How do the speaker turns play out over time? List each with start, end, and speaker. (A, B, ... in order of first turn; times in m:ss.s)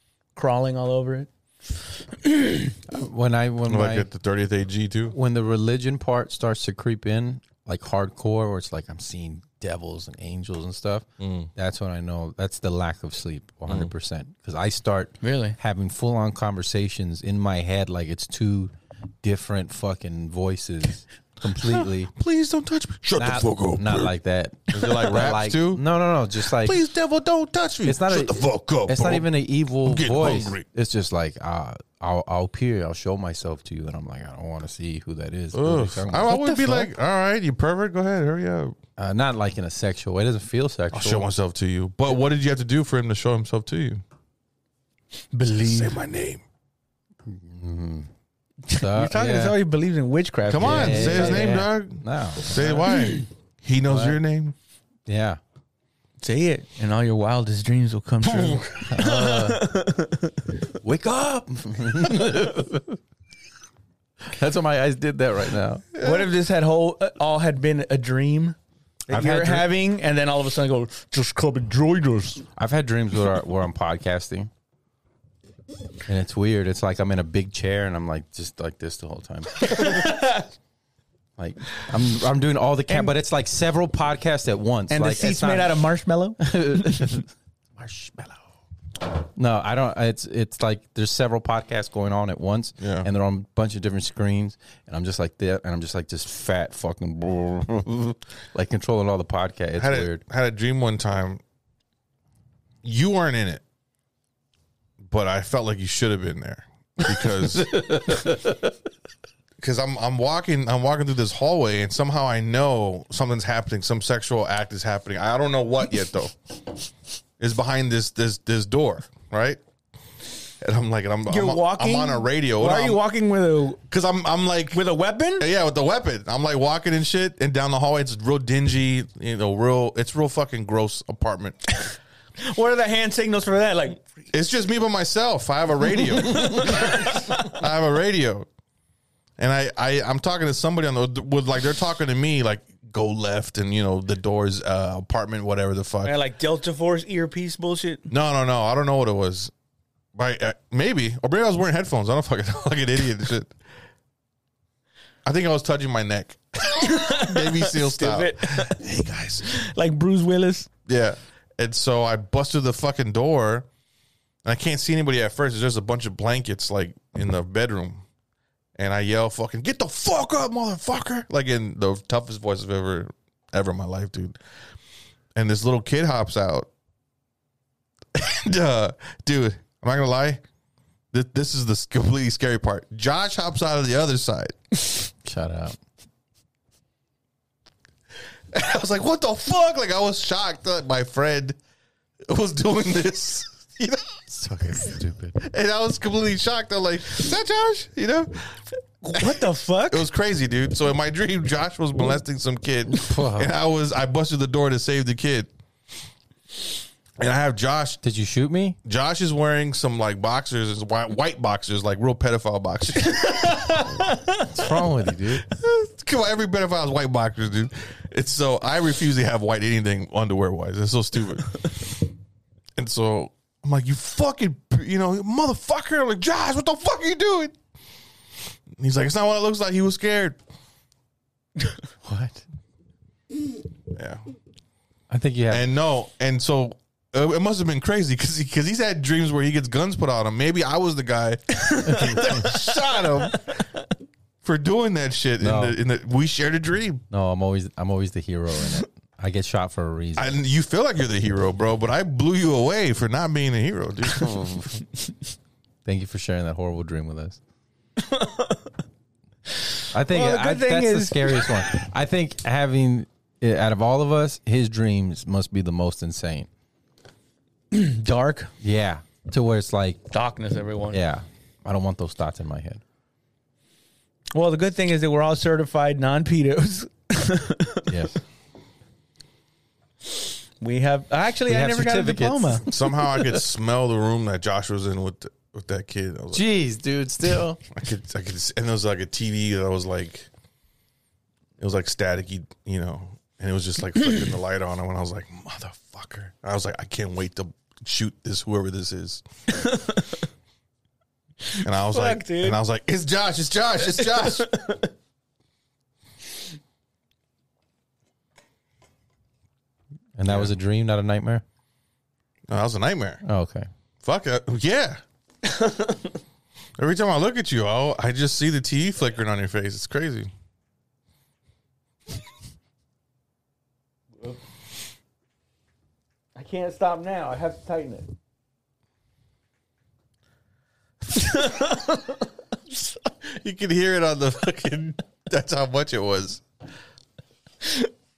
0:00.4-0:02.8 A
0:02.9-0:04.1 B
0:03.7-0:05.2 C
0:05.1-0:22.1 B
0:11.2-0:11.5 C
0:15.2-0:15.6 A
0:21.6-0:24.1 C
0:23.2-0:26.8 B
0:24.7-0:25.8 C
0:26.5-0:29.3 C
0:27.8-0:36.7 B
0:29.8-0:30.6 C
0:35.5-0:38.8 C
0:36.3-0:36.9 A
0:39.0-0:41.3 B
0:40.9-0:44.0 C
0:45.3-0:46.0 A
0:45.6-0:46.4 C
0:47.2-0:48.1 B
0:48.7-0:51.5 A
0:48.8-0:49.6 B
0:50.5-0:54.5 C
0:50.6-0:52.9 B
0:52.6-0:53.3 A
0:53.9-0:54.2 B
0:55.1-0:55.4 B
0:56.2-1:00.3 A
0:58.2-0:58.8 C
0:58.9-0:59.7 B
1:00.8-1:03.0 B
1:04.3-1:05.9 B
1:06.0-1:06.3 C
1:06.0-1:08.6 A
1:09.1-1:12.4 A
1:09.1-1:09.7 B
1:12.6-1:14.5 B
1:16.1-1:20.1 B
1:19.6-1:20.5 A
1:21.4-1:25.8 B
1:24.9-1:27.2 A
1:26.4-1:28.4 B
1:29.4-1:40.2 B
1:32.8-1:33.1 C
1:39.8-1:41.4 C
1:42.8-1:43.6 C
1:45.0-1:48.0 C
1:47.5-1:48.6 B
1:49.6-1:56.4 C
1:57.4-1:59.6 C
2:00.6-2:03.0 C
2:01.3-2:03.8 A
2:03.9-2:04.8 C
2:04.7-2:05.5 A
2:05.4-2:11.6 C
2:12.4-2:14.0 A
2:14.3-2:18.5 C
2:16.2-2:17.5 A
2:19.4-2:26.2 C
2:26.0-2:28.1 A
2:28.1-2:29.5 C
2:30.2-2:33.5 C
2:35.2-2:39.5 C
2:36.7-2:38.8 A
2:39.4-2:40.7 A
2:40.9-2:43.7 C
2:44.4-2:48.0 C
2:48.8-2:54.4 C
2:55.4-2:56.7 C
2:58.1-3:00.4 C
3:01.1-3:04.6 C
3:05.2-3:05.8 B
3:08.5-3:11.6 C
3:12.3-3:14.2 C
3:14.3-3:15.4 B
3:15.4-3:18.6 C
3:19.0-3:20.0 A
3:19.2-3:25.5 C
3:22.9-3:23.5 B
3:27.2-3:28.0 C
3:28.0-3:28.8 B
3:28.8-3:33.9 C
3:33.0-3:34.5 A
3:34.5-3:35.4 B
3:35.4-3:42.0 C
3:42.8-3:47.6 C
3:48.8-3:50.4 C
3:52.0-3:52.4 B
3:53.9-3:54.2 C
3:55.1-3:55.7 B
3:55.5-4:03.6 C
4:01.6-4:02.8 A
4:01.8-4:02.5 B
4:04.4-4:07.0 C
4:05.4-4:05.8 B
4:07.1-4:10.4 B
4:10.2-4:14.7 C
4:15.8-4:17.4 B
4:18.0-4:18.6 A
4:19.6-4:21.5 A
4:19.9-4:26.5 B
4:27.7-4:28.5 A
4:28.6-4:30.0 B
4:30.1-4:31.0 A
4:30.9-4:32.8 B
4:34.4-4:38.0 A
4:37.9-4:38.2 B
4:40.6-4:42.7 A
4:41.5-4:42.8 B
4:42.7-4:46.4 C
4:46.3-4:47.6 B
4:47.7-4:50.3 C
4:51.6-4:59.2 C
4:59.5-5:00.2 A
5:01.4-5:02.6 A
5:01.6-5:04.5 C
5:04.0-5:04.9 A
5:10.2-5:11.4 B
5:10.3-5:10.5 C
5:12.5-5:13.2 C
5:13.2-5:13.7 B
5:14.0-5:15.0 C
5:15.4-5:16.1 A
5:16.8-5:20.3 C
5:26.4-5:28.1 A
5:31.1-5:32.9 A
5:33.2-5:36.4 C
5:37.6-5:37.9 A